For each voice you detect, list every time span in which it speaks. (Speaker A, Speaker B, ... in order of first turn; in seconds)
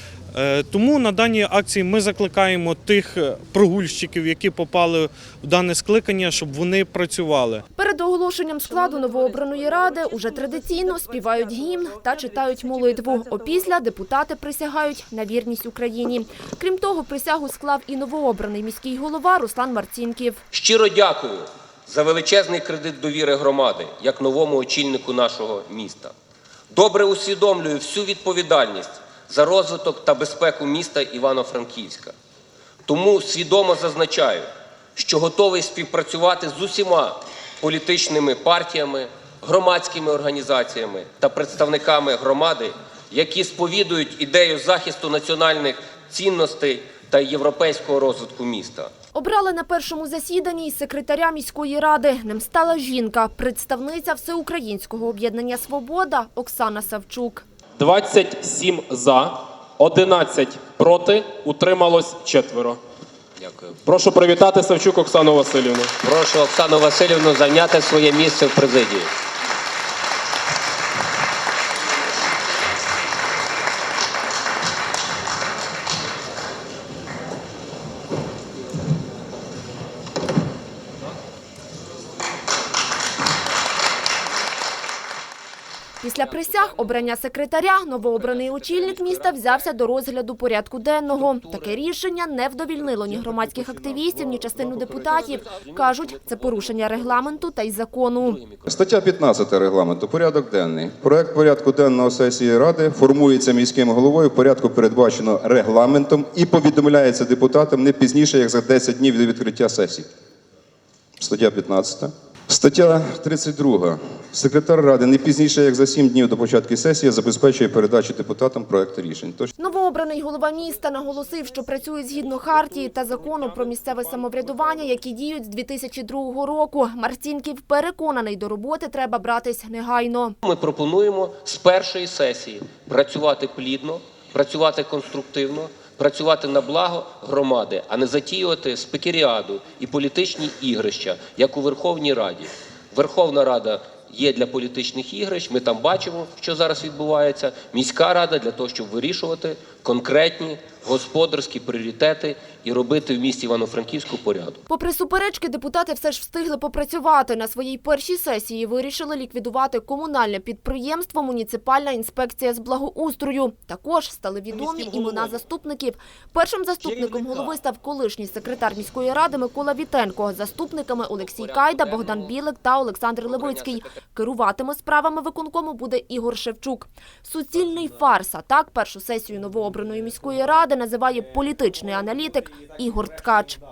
Speaker A: 0.3-7.6
Speaker B: 7.7-20.4, 49.1-57.4, 86.0-98.4, 119.6-130.3, 154.7-183.6
Speaker C: 20.5-26.1, 26.7-32.1, 32.9-48.9, 66.0-69.1, 88.2-89.7, 91.1-91.8, 93.0-97.5, 98.1-98.7, 130.4-154.6, 171.1-172.3, 173.2-173.9
Speaker D: 57.8-62.8, 63.8-65.9
Speaker E: 98.7-110.1, 111.2-119.5